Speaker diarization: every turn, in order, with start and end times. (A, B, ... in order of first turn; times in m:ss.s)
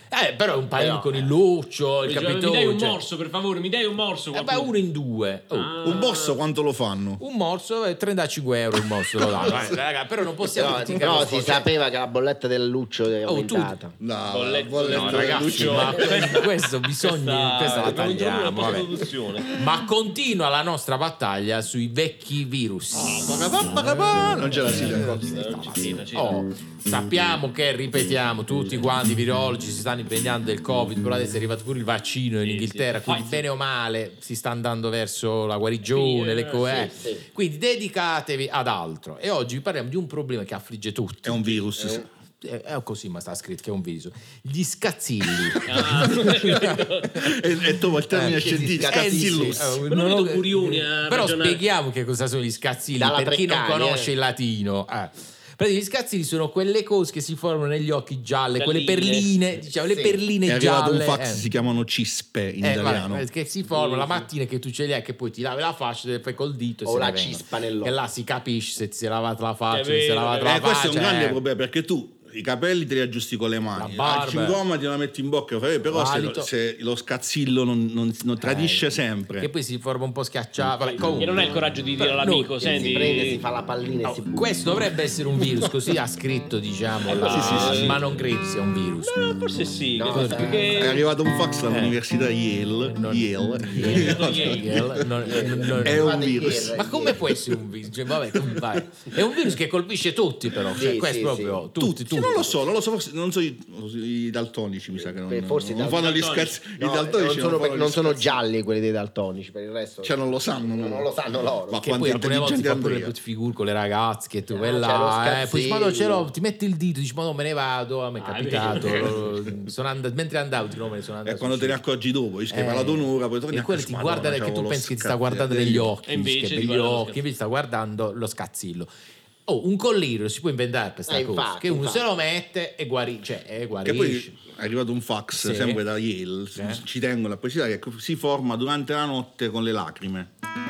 0:00.1-0:03.0 A
0:00.8-0:01.3 B
0:02.0-0:04.7 C
0:04.3-0:05.9 A
0:05.5-0:06.4 C
0:05.8-0:07.2 D
0:07.2-0:11.7 A
0:09.1-0:09.8 D
0:10.6-0:14.0 B
0:13.2-0:13.7 A
0:14.0-0:16.3 D
0:14.3-0:19.5 C
0:14.9-0:18.9 A
0:19.5-0:23.7 A
0:22.9-0:25.3 D
0:24.4-0:41.6 A
0:24.7-0:26.4 C
0:32.4-0:33.4 C
0:35.8-0:36.9 C
0:36.6-0:37.2 B
0:41.2-0:42.1 D
0:41.8-0:42.0 B
0:42.4-0:45.6 A
0:45.3-0:49.7 D
0:45.6-0:47.2 C
0:46.2-0:46.8 A
0:48.1-1:01.4 A
0:48.3-0:49.7 B
0:49.9-0:51.6 C
0:53.0-0:54.1 B
0:58.5-0:59.3 C
0:59.9-1:00.2 B
1:00.4-1:03.2 D
1:02.6-1:11.4 A
1:03.7-1:04.2 C
1:06.8-1:07.9 B
1:09.7-1:10.6 C
1:10.4-1:19.5 D
1:13.7-1:14.6 A
1:15.9-1:16.5 A
1:18.4-1:18.9 A
1:19.4-1:22.5 A
1:21.1-1:23.4 C
1:22.6-1:24.4 B
1:24.0-1:29.2 A
1:25.4-1:25.7 D
1:27.0-1:28.0 C
1:27.2-1:28.0 D
1:29.0-1:31.0 C
1:29.9-1:31.0 B
1:30.1-1:30.7 A
1:30.7-1:36.8 D
1:31.7-1:32.0 A
1:32.8-1:42.6 A
1:33.8-1:34.7 C
1:35.2-1:37.3 B
1:40.7-1:41.6 B
1:41.8-1:48.4 D
1:45.1-1:46.1 B
1:45.8-1:46.6 C
1:46.8-1:51.8 B
1:50.0-1:51.1 D
1:51.7-1:53.1 D
1:51.8-2:01.8 A
1:54.5-1:56.3 B
1:58.2-1:59.3 C
2:01.2-2:05.9 D
2:02.5-2:08.9 A
2:06.0-2:07.2 C
2:09.5-2:14.3 A
2:11.1-2:12.1 B
2:13.8-2:20.3 D
2:15.3-2:15.8 A
2:16.6-2:16.8 A